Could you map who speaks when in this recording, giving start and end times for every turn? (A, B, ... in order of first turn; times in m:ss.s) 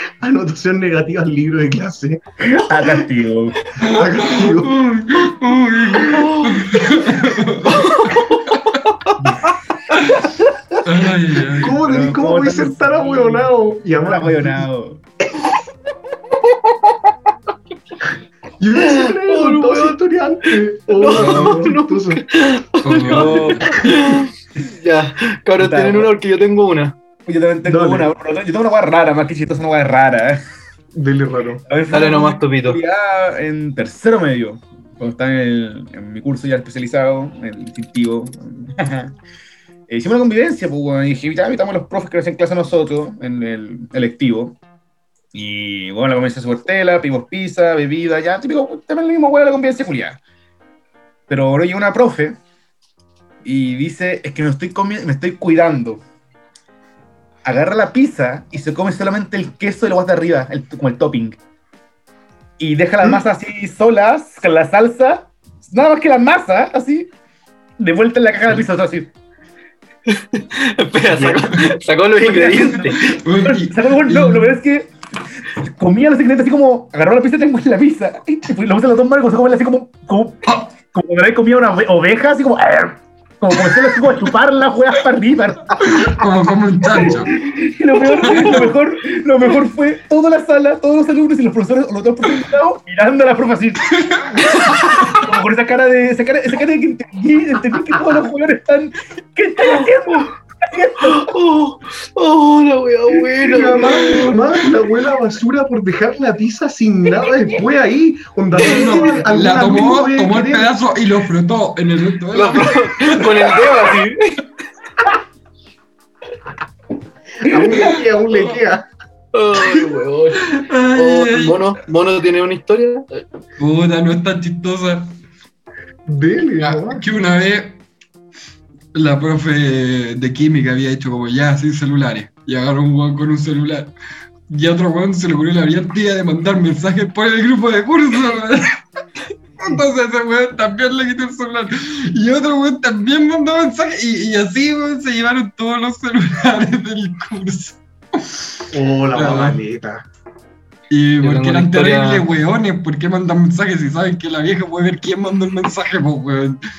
0:00.2-0:02.2 A
0:02.4-0:03.6 B
0:03.8-0:08.8 C
0:03.9-0:04.7 A
0:06.0-0:06.6 D
0:06.8-0:07.4 A
0:07.6-0:09.6 D
0:10.8-0:11.8 C
0:11.5-0:14.7 A
0:11.8-0:15.0 B
0:18.6-0:22.2 A
0:18.7-0:20.0 D
0:20.5-0:27.0 D
0:21.1-0:21.5 C
0:22.8-0:23.8 C
0:23.0-0:23.7 B
0:25.6-0:26.1 B
0:27.2-0:30.4 B
0:27.6-0:28.1 A
0:30.9-0:31.6 A
0:31.7-0:39.1 B
0:31.9-0:32.8 D
0:39.9-0:44.6 B
0:45.3-0:50.2 B
0:51.3-0:52.4 B
0:53.4-0:56.0 B
0:57.4-1:01.4 B
1:02.6-1:07.1 B
1:07.8-1:09.1 B
1:10.1-1:13.1 D
1:12.2-1:14.9 B
1:13.0-1:14.5 C
1:15.6-1:25.8 B
1:25.8-1:27.4 C
1:27.0-1:34.0 B
1:28.2-1:28.5 D
1:28.2-1:28.7 C
1:34.0-1:34.2 C
1:34.6-1:41.3 B
1:41.0-1:44.4 D
1:43.5-1:50.7 A
1:48.5-1:53.3 C
1:48.7-1:49.1 D
1:52.3-1:54.4 D
1:57.4-1:58.8 A
1:59.3-2:03.2 D
2:00.5-2:01.6 C
2:03.6-2:05.1 C
2:06.1-2:07.0 A
2:06.6-2:07.8 C
2:08.9-2:13.9 C
2:14.5-2:18.8 C
2:19.6-2:28.5 C
2:28.7-2:30.0 A
2:29.1-2:29.6 C
2:30.9-2:36.6 C
2:31.2-2:32.2 D